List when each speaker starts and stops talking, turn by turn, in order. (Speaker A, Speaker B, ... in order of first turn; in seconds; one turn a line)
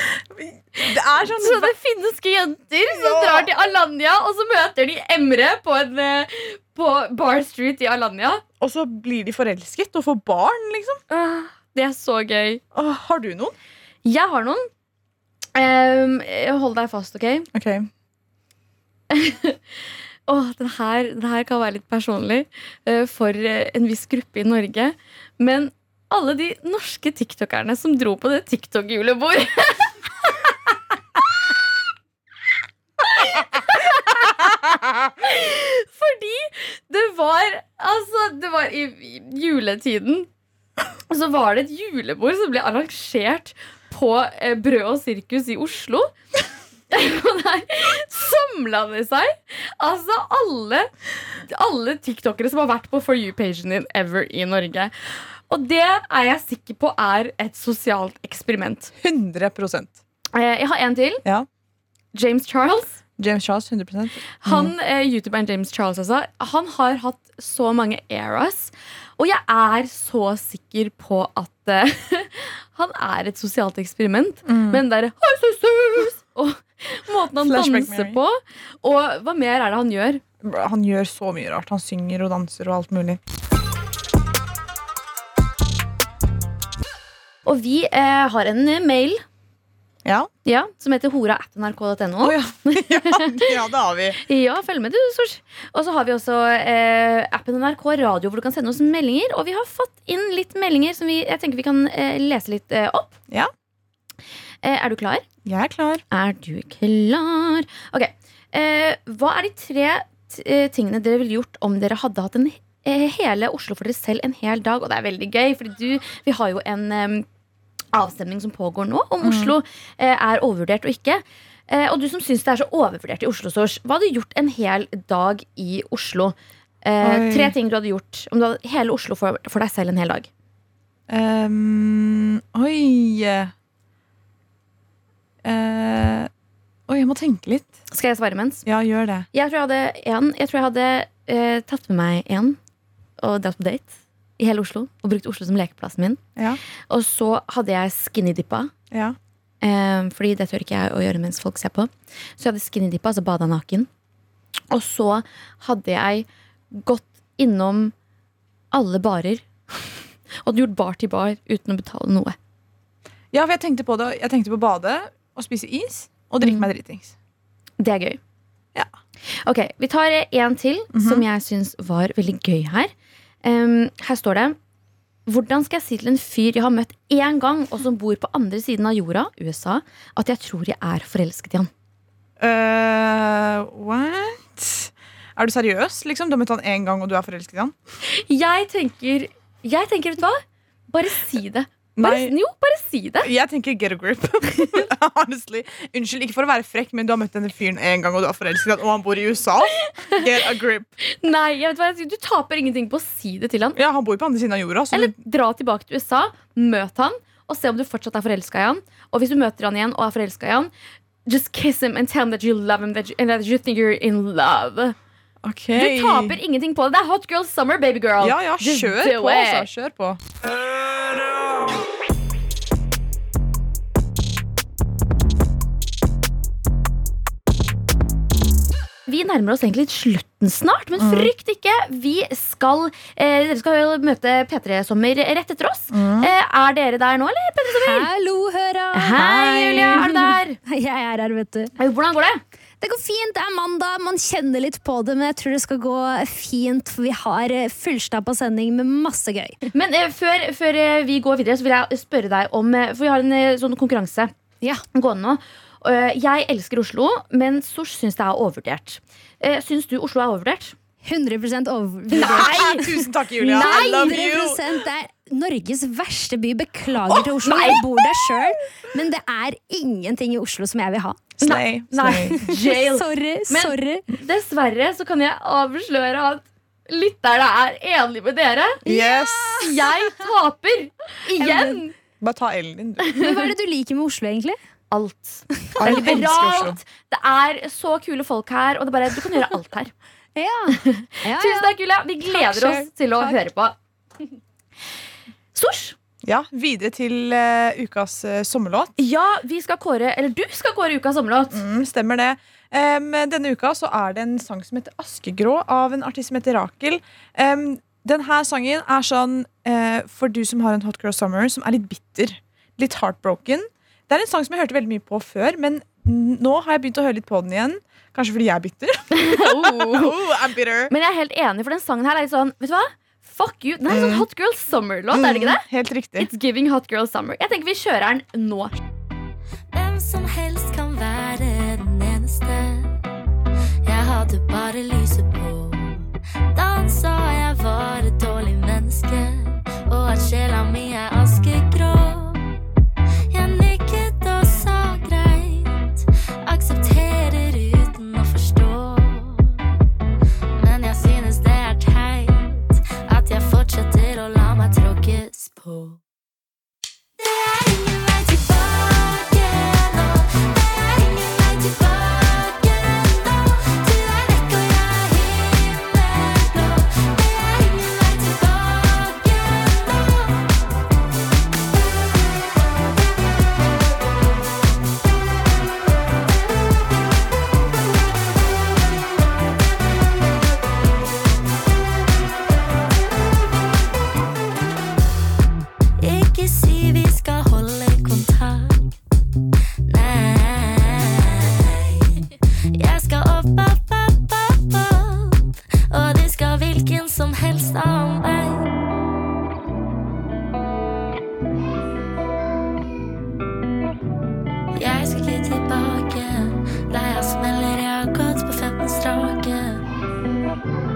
Speaker A: 0.1-1.7
Speaker B: 0.8-8.4
Speaker A: 2.9-3.5
Speaker A: 8.6-11.0
Speaker B: 11.1-12.6
Speaker A: 12.7-13.5
Speaker B: 14.0-14.7
Speaker B: 15.5-17.5
Speaker A: 17.5-17.9
Speaker B: 19.1-19.6
Speaker B: 20.3-30.7
Speaker B: 33.0-34.6
Speaker B: 35.1-40.3
Speaker B: 41.1-46.1
Speaker B: 46.9-54.9
Speaker B: 55.5-58.9
Speaker A: 59.0-60.0
Speaker B: 60.3-61.2
Speaker B: 62.1-63.0
Speaker A: 63.2-64.7
Speaker B: 64.4-80.2
Speaker A: 74.5-74.8
Speaker A: 77.3-78.2
Speaker A: 80.4-83.2
Speaker B: 87.4-89.2
Speaker A: 90.0-90.3
Speaker B: 90.5-93.5
Speaker A: 92.2-94.2
Speaker B: 94.2-103.2
Speaker B: 104.6-105.2
Speaker A: 105.4-106.0
Speaker B: 106.1-117.2
Speaker B: 117.9-130.3
Speaker A: 119.2-119.5
Speaker A: 127.0-127.5
Speaker A: 131.1-133.5
Speaker A: 135.4-136.3
Speaker A: 136.9-137.7
Speaker B: 137.9-138.6
Speaker A: 138.6-139.3
Speaker B: 139.3-142.6
Speaker B: 143.2-146.2
Speaker B: 146.9-148.7
Speaker A: 148.9-149.2
Speaker B: 149.6-153.9
Speaker B: 154.7-157.9
Speaker B: 158.7-159.9
Speaker B: 160.4-162.3
Speaker A: 163.3-167.1
Speaker B: 167.8-168.2
Speaker B: 169.4-172.9
Speaker A: 170.9-171.2
Speaker B: 173.4-174.6
Speaker B: 175.2-181.7
Speaker A: 182.4-187.7
Speaker B: 188.1-193.3
Speaker A: 191.9-192.3
Speaker A: 193.2-200.9
Speaker B: 199.8-200.3
Speaker B: 201.0-203.8
Speaker A: 203.7-205.2
Speaker B: 204.9-210.7
Speaker B: 211.2-214.9
Speaker A: 215.4-216.4
Speaker B: 215.7-219.7
Speaker A: 218.2-220.2
Speaker B: 229.1-238.1
Speaker A: 231.0-231.3
Speaker A: 235.9-236.3
Speaker C: 237.7-241.7
Speaker B: 238.9-240.6
Speaker A: 239.2-240.1
Speaker B: 241.8-242.4
Speaker C: 242.8-249.6
Speaker B: 249.7-254.3
Speaker B: 254.9-260.8
Speaker C: 261.0-271.3
Speaker B: 262.1-262.7
Speaker A: 262.1-264.8
Speaker B: 263.4-264.2
Speaker A: 267.0-268.3
Speaker B: 267.4-267.8
Speaker A: 271.4-272.4
Speaker B: 271.4-278.8
Speaker C: 272.1-274.1
Speaker A: 278.9-279.7
Speaker C: 278.9-280.1
Speaker B: 279.6-282.0
Speaker C: 281.4-281.8
Speaker A: 282.2-283.1
Speaker B: 283.0-283.5
Speaker C: 283.2-284.6
Speaker B: 284.9-289.9
Speaker C: 285.7-286.6
Speaker A: 285.8-286.8
Speaker C: 290.3-291.7
Speaker B: 290.7-293.8
Speaker C: 292.3-293.4
Speaker B: 295.5-296.0
Speaker A: 296.2-298.9
Speaker B: 299.0-301.6
Speaker A: 301.5-320.9
Speaker B: 319.1-320.2
Speaker B: 320.9-325.6
Speaker A: 323.9-324.3
Speaker A: 325.1-326.3
Speaker B: 326.1-328.8
Speaker D: 329.7-332.9
Speaker D: 333.8-342.4
Speaker D: 343.3-349.6
Speaker D: 350.6-356.0
Speaker D: 357.2-370.6
Speaker D: 386.0-388.9
Speaker D: 389.9-398.7
Speaker D: 404.7-409.8